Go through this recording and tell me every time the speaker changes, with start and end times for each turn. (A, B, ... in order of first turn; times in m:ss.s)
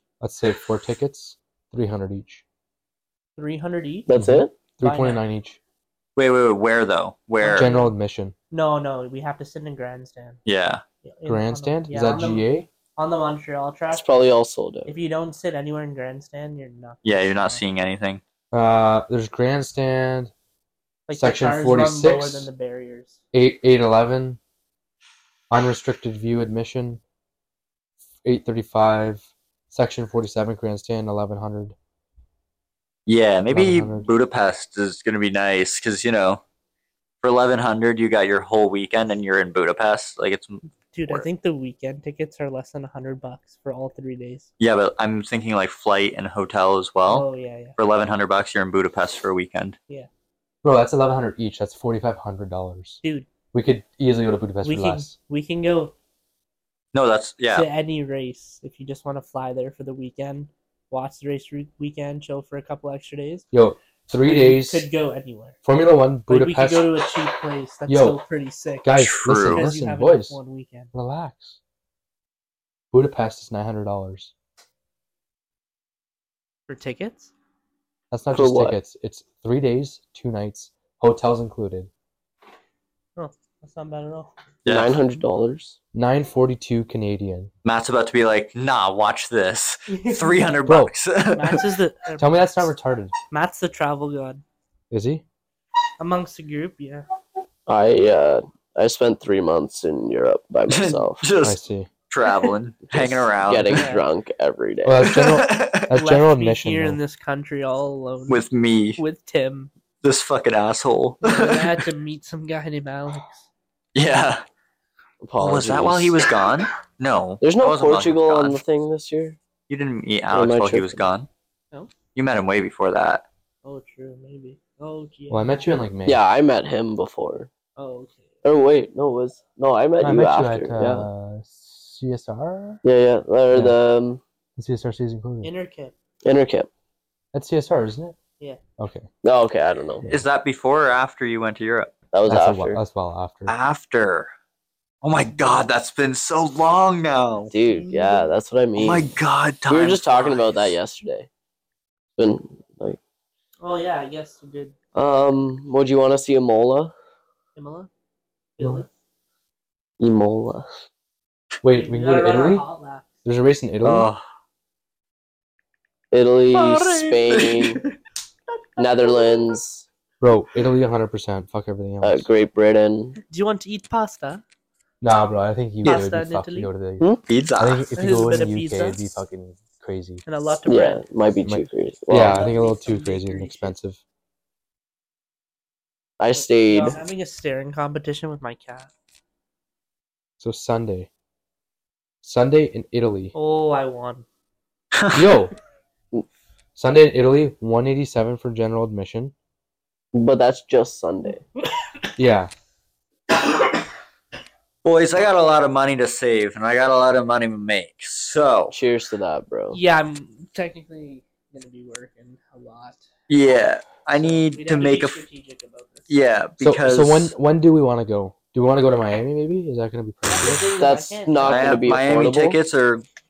0:00.2-0:02.4 A
0:03.4-0:04.1 B
0:04.1-0:04.5 C
0:04.1-0:05.6 A
0:04.8-0:05.2 B
0:06.2-0:07.7 D
0:07.4-0:07.9 B
0:07.5-0:08.3 A
0:08.5-0:10.4 B
0:10.4-0:10.8 D
0:11.0-0:14.1 B
0:11.3-0:12.7 A
0:13.9-0:14.9 C
0:14.9-0:17.6 B
0:17.0-0:18.2 D
0:18.5-0:20.3 A
0:21.1-0:23.2 B
0:21.1-0:22.5 A
0:23.3-0:24.4 A
0:25.5-0:27.0 A
0:28.2-0:31.8 A
0:33.0-0:36.4 D
0:33.5-0:34.1 A
0:37.2-0:41.2 D
0:40.9-0:44.5 B
0:44.6-0:47.2 D
0:47.1-0:47.8 B
0:47.8-0:49.8 D
0:50.6-0:53.0 A
0:53.0-0:53.3 B
0:53.5-0:55.1 A
0:54.6-0:55.9 B
0:56.9-0:57.7 D
0:57.5-1:03.4 B
1:03.5-1:04.9 A
1:04.2-1:05.6 B
1:05.6-1:06.9 A
1:06.3-1:10.9 B
1:07.9-1:08.2 A
1:08.8-1:10.4 A
1:09.0-1:09.7 D
1:10.9-1:11.6 A
1:12.9-1:14.3 A
1:16.7-1:17.3 B
1:18.1-1:21.9 A
1:18.3-1:18.8 C
1:23.2-1:24.3 B
1:24.6-1:25.0 D
1:24.6-1:25.8 C
1:25.9-1:27.5 A
1:27.6-1:31.6 D
1:29.9-1:30.4 B
1:30.7-1:30.9 A
1:31.3-1:32.6 B
1:32.2-1:33.1 A
1:33.3-1:34.4 B
1:34.9-1:35.2 A
1:36.0-1:37.0 B
1:37.7-1:41.2 C
1:40.7-1:43.8 D
1:41.4-1:41.9 A
1:42.9-1:45.1 C
1:43.7-1:44.0 B
1:44.8-1:47.0 A
1:45.0-1:45.9 D
1:45.9-1:48.4 B
1:48.3-1:49.0 D
1:49.0-1:49.7 B
1:50.0-1:51.8 D
1:51.2-1:53.4 B
1:53.9-1:54.4 D
1:55.2-1:56.2 C
1:55.4-1:58.6 D
1:57.4-1:59.4 C
1:59.7-2:01.3 D
2:00.3-2:01.0 C
2:02.1-2:03.2 D
2:03.6-2:05.5 B
2:05.3-2:06.2 A
2:06.0-2:07.5 C
2:07.8-2:08.2 B
2:08.4-2:11.1 C
2:10.0-2:12.8 A
2:12.8-2:14.2 C
2:14.6-2:15.5 A
2:15.4-2:15.9 B
2:16.2-2:16.7 C
2:17.3-2:18.2 A
2:18.8-2:19.1 A
2:19.2-2:20.1 C
2:20.1-2:21.9 D
2:22.1-2:22.8 C
2:22.3-2:23.5 A
2:23.5-2:24.3 D
2:25.0-2:27.5 D
2:27.5-2:29.0 C
2:27.6-2:28.1 B
2:28.8-2:30.7 D
2:29.7-2:31.3 C
2:32.2-2:33.0 C
2:33.6-2:34.7 B
2:34.9-2:36.9 C
2:37.6-2:37.9 B
2:38.6-2:38.9 B
2:40.0-2:40.7 C
2:41.6-2:42.6 A
2:41.7-2:43.1 B
2:43.2-2:44.1 A
2:43.8-2:44.2 D
2:46.1-2:47.8 C
2:46.5-2:47.8 D
2:48.8-2:49.8 C
2:49.0-2:49.4 B
2:50.2-2:52.2 A
2:52.0-2:53.2 C
2:53.2-2:54.4 B
2:55.0-3:00.2 A
2:55.8-2:56.7 B
2:57.3-2:57.8 D
2:57.9-2:59.2 B
3:00.2-3:01.0 B
3:00.7-3:02.4 C
3:01.4-3:04.0 A
3:02.2-3:03.7 B
3:06.2-3:07.0 C
3:06.3-3:08.9 B
3:10.4-3:11.1 A
3:12.2-3:13.3 A
3:13.3-3:14.2 B
3:14.9-3:15.3 D
3:15.1-3:15.5 A
3:16.8-3:19.3 A
3:20.1-3:21.4 C
3:22.2-3:22.5 A
3:24.8-3:28.7 D
3:28.7-3:29.8 C
3:29.7-3:33.1 B
3:33.3-3:35.2 D
3:34.1-3:36.1 B
3:36.1-3:37.3 D
3:36.6-3:40.8 A
3:40.3-3:42.4 B
3:40.8-3:42.6 C
3:41.4-3:43.0 D